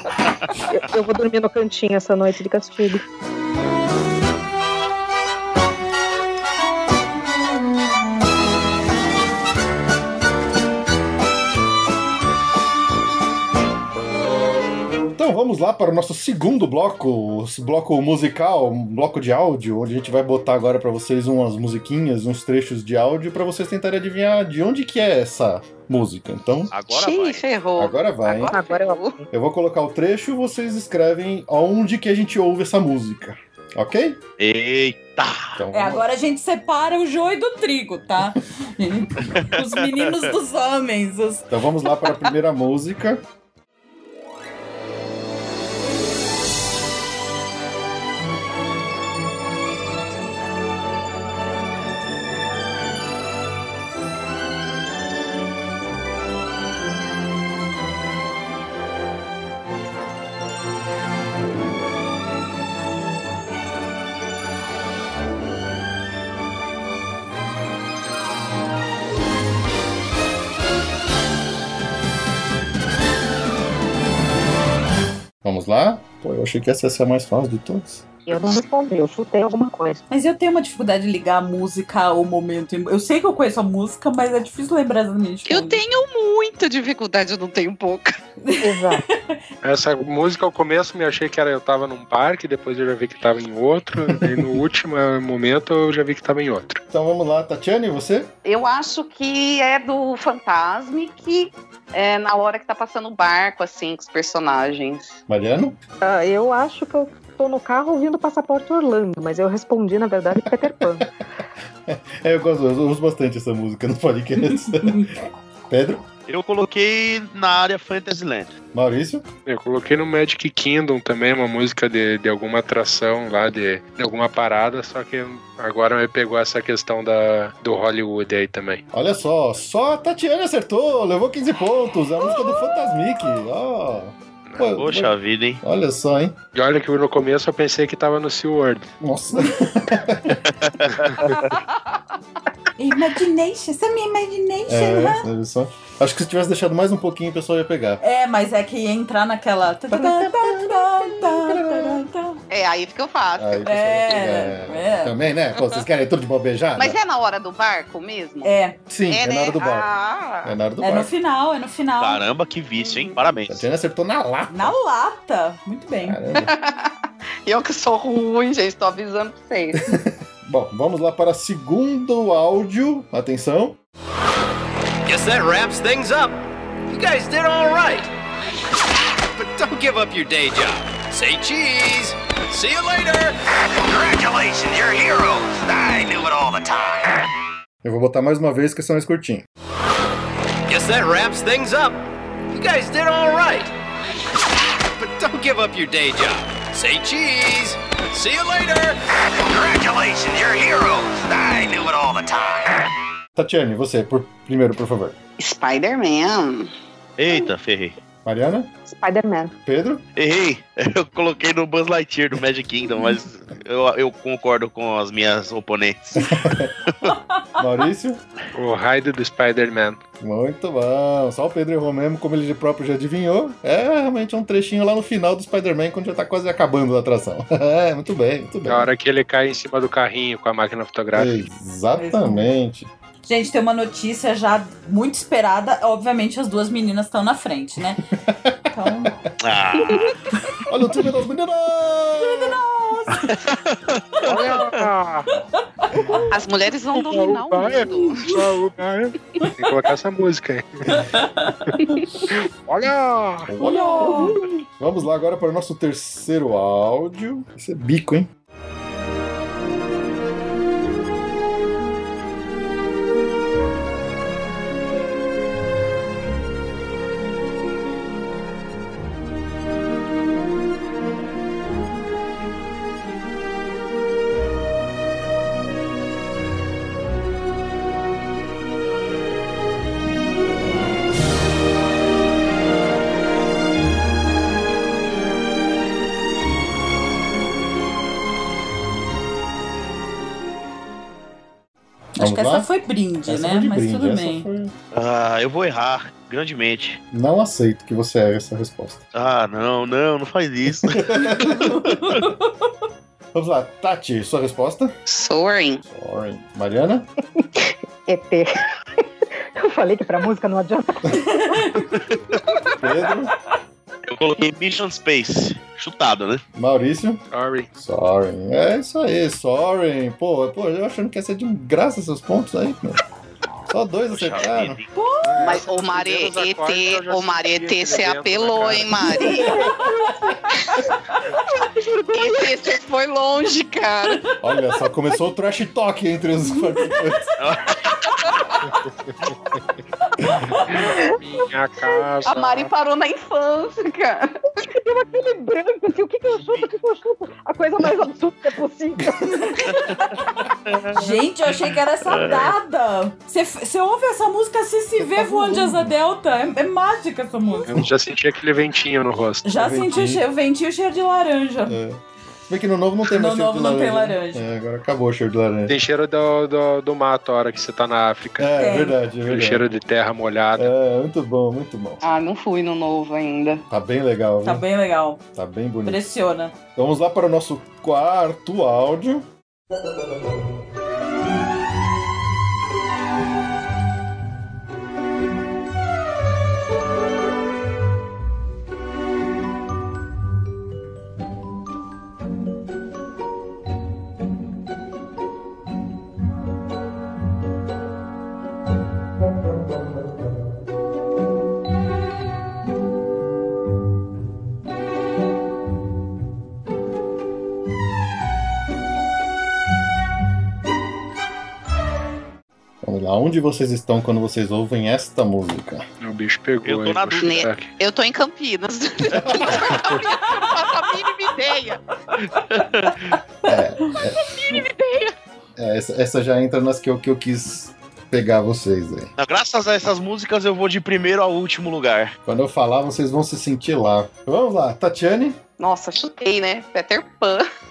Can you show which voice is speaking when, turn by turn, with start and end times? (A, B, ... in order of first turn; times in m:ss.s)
0:00.6-0:03.0 A
0:15.1-0:26.7 B
0:26.7-0:27.5 C
0:26.9-0:29.2 D
0:27.8-0:28.5 B
0:28.5-0:29.2 A
0:29.3-0:34.2 B
0:34.4-0:35.6 C
0:35.6-0:36.1 B
0:35.7-0:41.4 E
0:41.5-0:43.2 B
1:15.4-1:18.1 B
1:18.3-1:20.0 A
1:20.1-1:25.8 E
1:25.5-1:28.2 D
1:28.4-1:29.4 E
1:28.6-1:29.0 A
1:29.6-1:36.8 F
1:34.1-1:34.4 B
1:36.9-1:38.3 B
1:38.4-1:45.1 D
1:45.3-1:45.8 B
1:46.0-1:51.1 A
1:50.8-1:51.1 B
1:51.9-1:56.0 B
1:54.6-1:55.1 E
1:56.3-1:58.6 C
1:58.7-1:59.2 B
1:59.4-2:08.8 F
2:08.9-2:16.4 B
2:14.8-2:15.6 C
2:16.5-2:18.9 F
2:19.0-2:20.4 B
2:20.6-2:21.1 C
2:21.0-2:21.3 F
2:22.8-2:25.2 E
2:24.7-2:28.0 B
2:28.0-2:32.4 E
2:29.9-2:32.0 B
2:32.5-2:33.6 D
2:33.4-2:37.0 B
2:33.6-2:35.1 E
2:36.8-2:38.5 D
2:38.4-2:38.8 E
2:38.9-2:39.9 B
2:39.1-2:40.5 D
2:40.4-2:41.1 B
2:40.8-2:42.2 E
2:42.0-2:43.6 C
2:42.8-2:43.2 D
2:43.5-2:44.8 B
2:44.5-2:46.2 E
2:46.0-2:46.5 B
2:46.4-2:46.9 D
2:47.4-2:49.9 D
2:49.7-2:53.8 B
2:55.0-2:58.1 G
2:59.3-3:07.3 G
3:07.8-3:09.4 B
3:10.7-3:13.7 G
3:14.9-3:22.9 G
3:23.4-3:25.2 B
3:25.4-3:26.7 D
3:27.2-3:28.0 C
3:28.2-3:28.7 B
3:28.9-3:29.5 A
3:29.6-3:30.0 B
3:30.2-3:36.3 C
3:36.2-3:36.7 B
3:37.6-3:38.2 B
3:38.5-3:40.0 F
3:40.2-3:48.9 B
3:48.6-3:51.4 F
3:51.1-3:52.9 B
3:52.0-3:52.5 E
3:53.2-3:58.0 E
3:58.2-3:59.1 B
3:58.7-3:59.2 E
3:59.4-4:00.1 C
4:00.6-4:02.6 B
4:02.2-4:03.4 E
4:03.2-4:04.9 C
4:04.2-4:05.3 F
4:05.4-4:06.1 E
4:05.9-4:06.3 F
4:06.3-4:08.5 D
4:06.9-4:13.5 F
4:10.9-4:11.9 E
4:13.4-4:18.3 B
4:13.6-4:14.4 E
4:13.6-4:14.5 A
4:52.2-4:54.5 E
4:52.2-4:52.7 B
4:53.2-4:54.7 B
4:54.9-4:57.0 C
4:57.1-4:59.0 B
4:59.1-5:01.2 C
5:00.8-5:02.2 B
5:01.2-5:02.7 E
5:03.3-5:04.9 B
5:05.1-5:05.8 D
5:05.8-5:07.1 B
5:07.4-5:08.5 A
5:09.6-5:12.0 A
5:11.1-5:12.0 E
5:12.8-5:13.3 B
5:14.0-5:16.4 C
5:16.6-5:17.2 B
5:17.3-5:17.7 F
5:17.7-5:23.0 B
5:23.7-5:24.8 B
5:24.1-5:24.9 C
5:24.9-5:25.6 E
5:25.2-5:29.2 F
5:25.4-5:29.6 D
5:29.2-5:30.0 E
5:29.2-5:30.4 A
5:29.2-5:29.7 B
5:30.5-5:30.8 D
5:32.0-5:34.2 D
5:34.4-5:37.3 B
5:36.8-5:37.1 E
5:37.4-5:38.0 C
5:40.3-5:40.9 E
5:40.6-5:42.7 F
5:42.2-5:44.3 D
5:44.6-5:50.2 A
5:46.4-5:46.7 C
5:49.3-5:50.1 E
5:50.6-5:51.0 C
5:50.9-5:57.7 E
5:52.0-5:52.5 C
5:55.0-5:55.9 B
5:57.7-5:59.5 F
5:59.4-6:01.8 E
5:59.6-6:00.2 B
6:01.7-6:05.8 B
6:03.1-6:04.4 E
6:05.7-6:08.5 F
6:08.4-6:09.6 B
6:08.6-6:09.0 E
6:09.2-6:10.7 F
6:10.5-6:12.0 B
6:12.0-6:13.6 D
6:13.7-6:14.6 B
6:14.4-6:15.2 E
6:15.3-6:16.0 B
6:15.8-6:16.5 E
6:16.7-6:19.2 B
6:52.8-6:55.8 B
6:56.0-6:57.7 F
6:56.6-6:57.4 C
6:57.1-7:01.8 D
6:59.1-6:59.9 B
7:02.2-7:03.2 C
7:03.4-7:04.6 B
7:04.2-7:05.1 D
7:05.6-7:09.1 B
7:09.2-7:12.1 C
7:12.2-7:15.4 B
7:15.6-7:17.4 D